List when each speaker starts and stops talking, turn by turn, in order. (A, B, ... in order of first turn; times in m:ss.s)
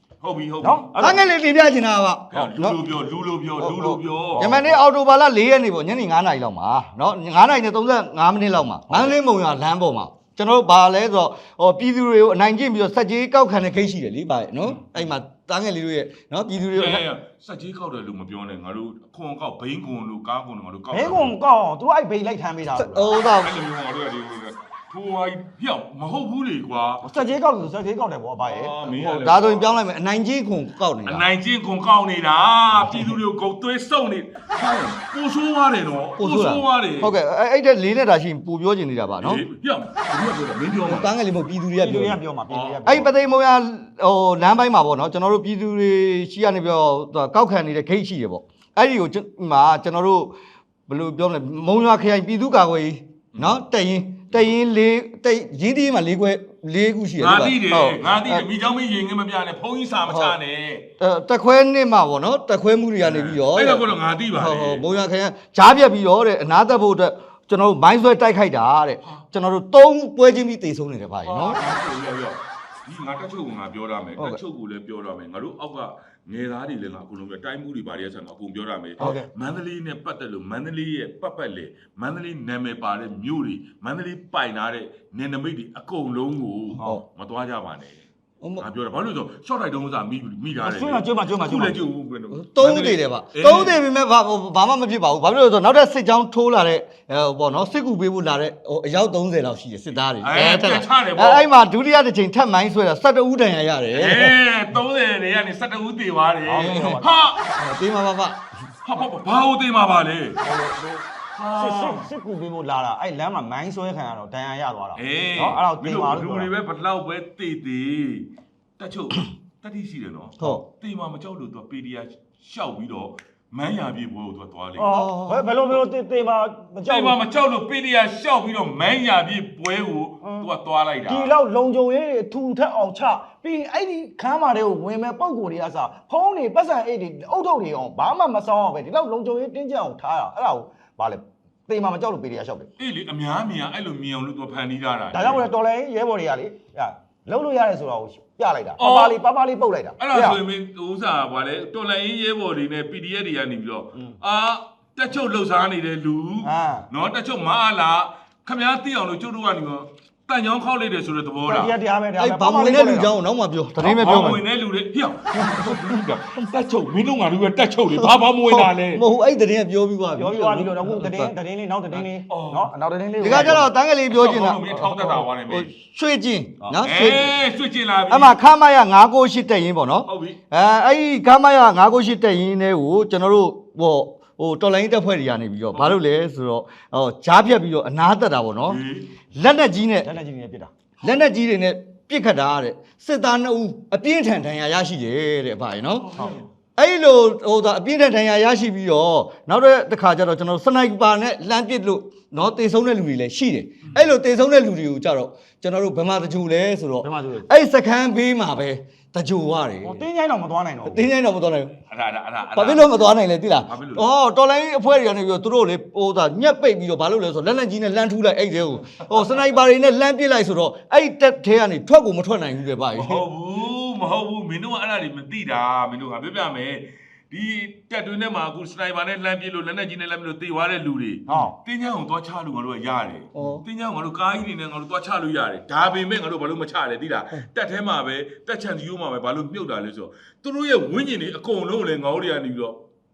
0:00.2-0:00.9 A
0:00.6-0:01.2 B
0:01.0-0:02.8 C
0:02.3-0:04.6 A
0:03.6-0:17.0 C
0:04.4-0:04.7 B
0:14.6-0:15.0 A
0:16.7-0:21.3 A
0:20.9-0:23.2 B
0:22.8-0:23.5 C
0:23.4-0:27.1 A
0:27.0-0:29.2 B
0:28.4-0:29.8 A
0:29.0-0:31.3 C
0:31.0-0:37.2 A
0:36.2-0:39.4 C
0:39.2-0:41.1 A
0:40.8-0:42.2 C
0:41.8-0:43.1 B
0:42.5-0:42.9 A
0:42.8-0:50.3 C
0:50.9-0:58.5 C
0:53.3-0:53.6 A
0:57.2-1:00.9 A
1:00.1-1:00.4 C
1:01.0-1:11.6 C
1:03.0-1:04.8 A
1:11.2-1:28.0 A
1:19.0-1:19.3 B
1:28.4-1:28.7 C
1:28.6-1:33.8 A
1:30.6-1:31.8 B
1:32.3-1:44.4 C
1:40.2-1:41.5 A
1:43.9-1:47.4 A
1:46.5-1:47.0 C
1:46.5-1:47.1 B
1:47.5-1:48.4 C
1:48.8-1:50.4 A
1:50.4-1:56.5 B
1:51.3-1:52.1 A
1:55.0-2:04.9 A
2:04.8-2:07.2 B
2:04.8-2:05.5 C
2:06.9-2:11.3 A
2:10.2-2:10.5 B
2:11.1-2:22.7 B
2:22.8-2:25.4 A
2:25.1-2:30.4 B
2:28.8-2:29.2 A
2:30.0-2:41.7 A
2:36.4-2:36.9 B
2:41.5-2:43.1 B
2:42.2-2:44.4 C
2:43.8-2:49.0 A
2:45.3-2:46.0 C
2:48.0-2:51.3 C
2:50.2-2:53.7 B
2:52.0-2:55.7 A
2:53.2-2:57.4 C
2:56.6-2:56.9 B
2:56.8-2:58.4 A
2:58.1-3:08.8 C
3:00.0-3:00.4 A
3:08.7-3:09.1 A
3:09.3-3:10.1 C
3:10.0-3:10.7 B
3:11.0-3:16.2 C
3:16.0-3:16.5 A
3:16.8-3:30.0 C
3:23.8-3:24.1 A
3:27.0-3:27.5 B
3:29.8-3:31.1 B
3:30.8-3:31.8 C
3:31.9-3:32.9 A
3:32.5-3:43.2 C
3:33.6-3:34.1 A
3:38.8-3:39.4 A
3:42.9-4:02.8 A
3:51.3-3:51.5 B
3:53.4-3:53.6 C